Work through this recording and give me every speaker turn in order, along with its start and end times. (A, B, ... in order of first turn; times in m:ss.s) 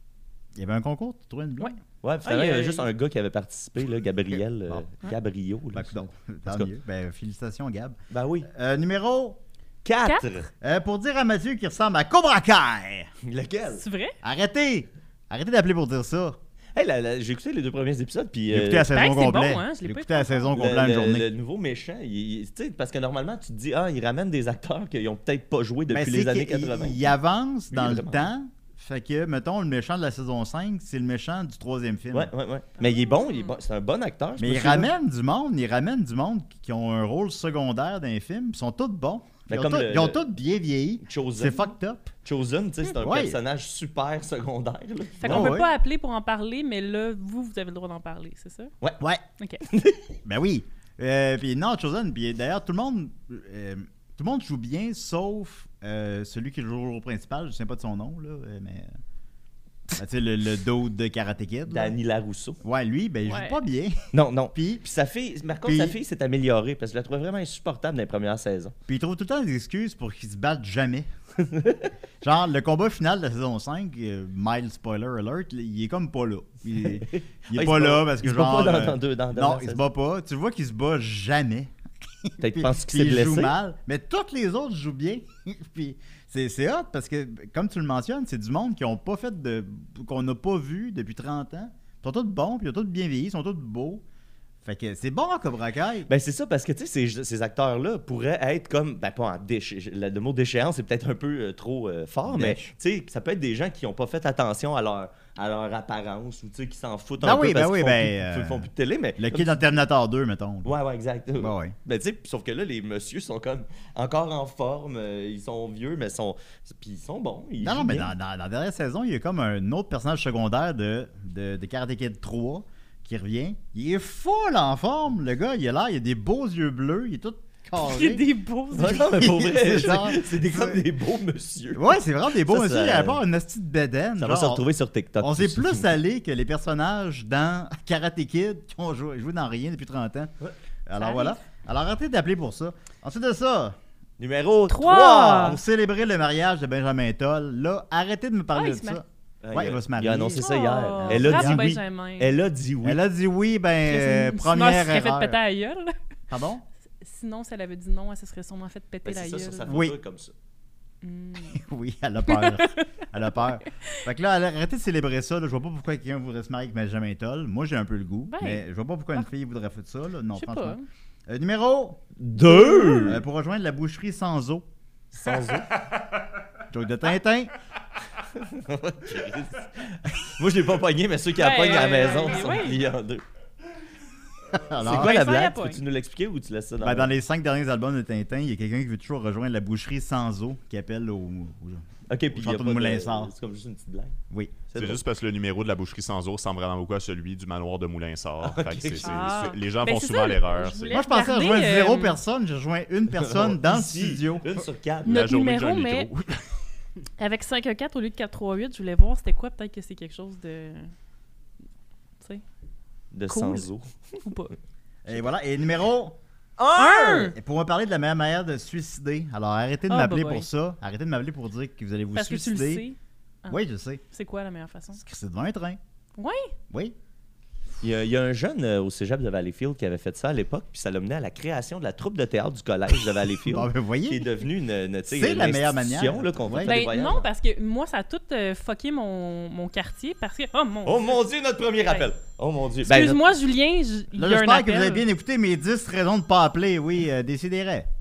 0:00.6-0:01.8 A
0:01.6-0:02.9 B
0:02.0-0:06.7 C
0:05.7-0:09.4 A
0:08.1-0:08.5 C
0:09.8-0:10.5 C
0:10.6-0:13.1 A
0:13.2-0:13.8 C
0:13.8-0:14.2 B
0:14.2-0:16.4 A
0:16.8-0:18.9 C
0:18.5-0:21.3 A
0:18.9-0:20.5 B
0:20.6-0:27.1 C
0:25.9-0:32.3 A
0:27.7-0:28.3 C
0:32.1-0:34.9 C
0:32.8-0:33.5 B
0:34.4-0:42.1 A
0:39.5-0:40.2 C
0:41.0-0:41.7 C
0:42.2-0:45.6 C
0:43.0-0:43.4 A
0:45.2-0:48.7 B
0:45.2-0:45.7 A
0:49.7-0:50.2 C
0:50.2-0:58.9 A
1:00.0-1:01.9 A
1:01.7-1:02.6 C
1:02.6-1:04.8 A
1:03.3-1:03.6 B
1:04.1-1:08.7 C
1:05.6-1:06.0 A
1:08.9-1:11.1 A
1:11.4-1:11.9 C
1:12.2-1:21.7 A
1:17.0-1:19.8 C
1:22.2-1:34.0 A
1:22.4-1:23.6 C
1:34.6-1:36.1 A
1:36.1-1:49.8 C
1:42.3-1:42.7 A
1:47.2-1:50.7 A
1:50.6-1:58.1 C
1:51.4-1:51.8 A
1:57.6-2:10.8 A
2:07.8-2:09.1 B
2:08.7-2:13.2 C
2:11.7-2:14.6 A
2:14.2-2:15.9 C
2:15.2-2:20.3 A
2:20.9-2:23.8 A
2:21.0-2:21.4 B
2:24.2-2:25.6 C
2:24.7-2:25.6 B
2:25.3-2:31.7 A
2:28.5-2:29.0 B
2:29.4-2:33.0 C
2:30.4-2:32.3 B
2:32.8-2:35.4 A
2:33.8-2:35.9 B
2:36.3-2:36.6 A
2:37.0-2:39.7 B
2:39.1-2:40.3 C
2:39.7-2:40.0 A
2:41.0-2:41.6 B
2:41.5-2:52.0 A
2:42.3-2:42.9 B
2:48.3-2:48.6 B
2:50.4-2:50.9 B
2:52.2-2:53.2 C
2:52.4-2:53.2 B
2:53.0-2:54.7 A
2:55.1-2:55.8 C
2:56.7-2:57.5 A
2:58.4-3:03.2 C
3:01.4-3:02.8 B
3:04.5-3:05.2 A
3:04.8-3:07.1 C
3:04.9-3:05.8 B
3:06.8-3:13.3 A
3:12.1-3:14.2 C
3:14.3-3:14.6 A
3:14.7-3:15.0 C
3:14.8-3:21.0 D
3:18.4-3:19.5 C
3:19.0-3:22.2 B
3:20.9-3:24.6 A
3:23.1-3:25.2 C
3:25.0-3:26.1 B
3:25.0-3:26.5 D
3:27.2-3:30.9 B
3:33.1-3:34.2 C
3:33.3-3:33.7 B
3:34.2-3:34.6 B
3:35.0-3:36.2 A
3:36.6-3:37.3 C
3:36.8-3:37.4 B
3:37.1-3:42.9 A
3:39.9-3:40.5 B
3:42.1-3:45.0 B
3:43.5-3:44.0 A
3:45.0-3:45.8 A
3:46.2-3:46.5 B
3:46.7-3:47.0 A
3:47.8-3:57.3 C
3:53.4-3:54.3 A
3:55.1-3:56.8 A
3:56.6-4:01.2 B
4:00.8-4:03.3 C
4:02.8-4:05.1 B
4:04.2-4:07.9 A